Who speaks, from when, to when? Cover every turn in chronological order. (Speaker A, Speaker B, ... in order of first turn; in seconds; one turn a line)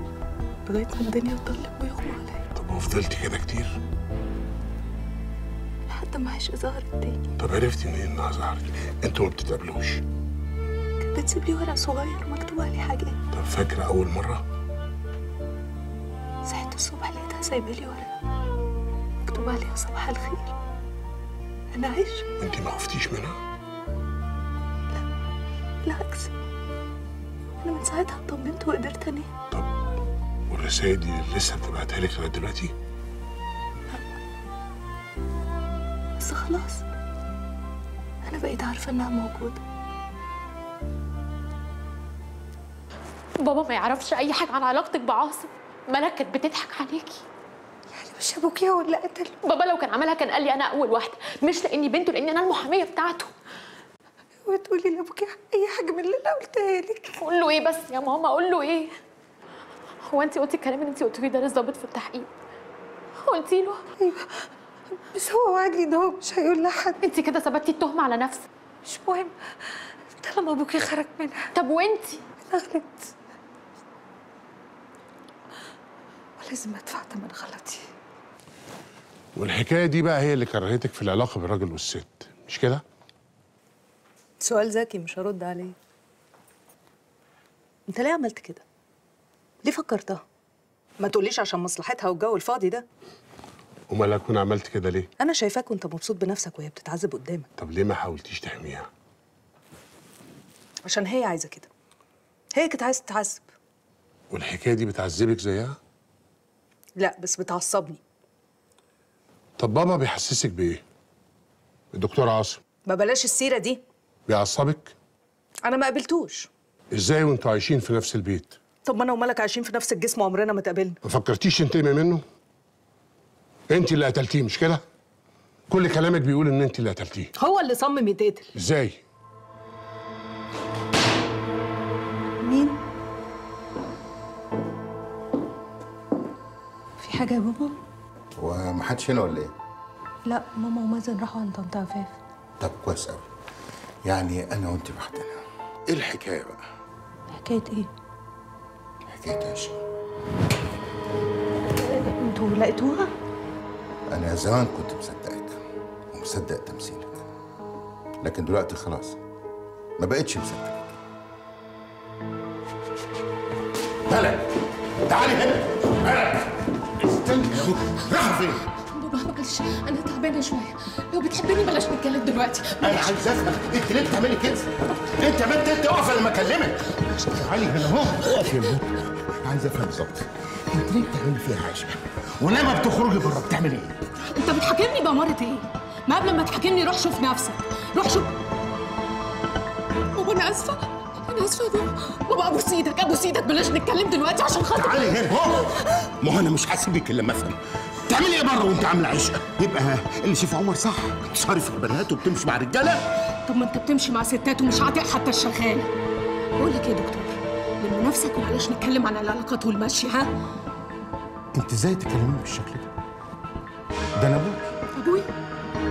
Speaker A: 0.7-2.4
Speaker B: 2.6-3.8
Speaker A: 5.9-7.3
Speaker B: 7.4-10.0
Speaker A: 11.1-13.2
Speaker B: 13.3-14.4
Speaker A: 16.5-18.1
Speaker A: 19.3-20.5
Speaker A: 21.7-22.3
Speaker B: 22.4-23.4
Speaker A: 25.8-26.3
Speaker A: 27.6-29.3
Speaker B: 30.5-32.7
Speaker A: 36.2-36.8
Speaker A: 38.3-39.6
Speaker C: 43.4-47.2
Speaker D: 48.0-49.4
Speaker C: 49.5-53.3
Speaker D: 54.5-57.1
Speaker C: 57.2-58.9
Speaker C: 60.0-62.3
Speaker C: 63.2-63.9
Speaker D: 64.0-64.3
Speaker D: 65.1-67.0
Speaker C: 67.0-68.5
Speaker D: 68.9-69.3
Speaker D: 70.2-71.5
Speaker C: 71.6-72.2
Speaker D: 72.5-73.1
Speaker D: 76.4-77.8
Speaker B: 79.4-82.8
Speaker A: 84.4-85.8
Speaker A: 87.9-88.6
Speaker A: 89.6-90.2
Speaker A: 91.0-92.9
Speaker B: 93.9-95.1
Speaker A: 95.2-97.5
Speaker B: 97.6-98.9
Speaker A: 100.9-101.7
Speaker A: 102.5-103.5
Speaker B: 104.3-105.8
Speaker A: 107.0-108.0
Speaker B: 109.6-110.8
Speaker B: 111.9-112.6
Speaker A: 112.9-113.8
Speaker B: 114.3-114.9
Speaker A: 115.7-116.5
Speaker B: 116.9-118.6
Speaker A: 118.9-121.0
Speaker B: 121.0-122.2
Speaker B: 123.7-124.8
Speaker B: 125.7-127.3
Speaker A: 127.4-128.5
Speaker B: 128.6-129.0
Speaker A: 132.4-132.8
Speaker A: 137.0-137.7
Speaker E: 138.4-139.5
Speaker A: 140.3-142.2
Speaker E: 142.6-143.3
Speaker E: 144.1-146.6
Speaker A: 147.3-147.9
Speaker E: 149.1-149.8
Speaker A: 151.8-153.1
Speaker E: 154.1-155.6
Speaker E: 156.1-157.2
Speaker E: 158.2-159.2
Speaker E: 160.0-160.8
Speaker E: 164.1-168.7
Speaker A: 168.9-173.1
Speaker E: 172.8-184.0
Speaker A: 184.3-188.3
Speaker A: 190.2-195.1
Speaker E: 194.7-203.1
Speaker A: 203.5-205.9
Speaker A: 206.6-210.3
Speaker E: 211.6-212.9
Speaker E: 214.2-214.7
Speaker A: 215.0-215.3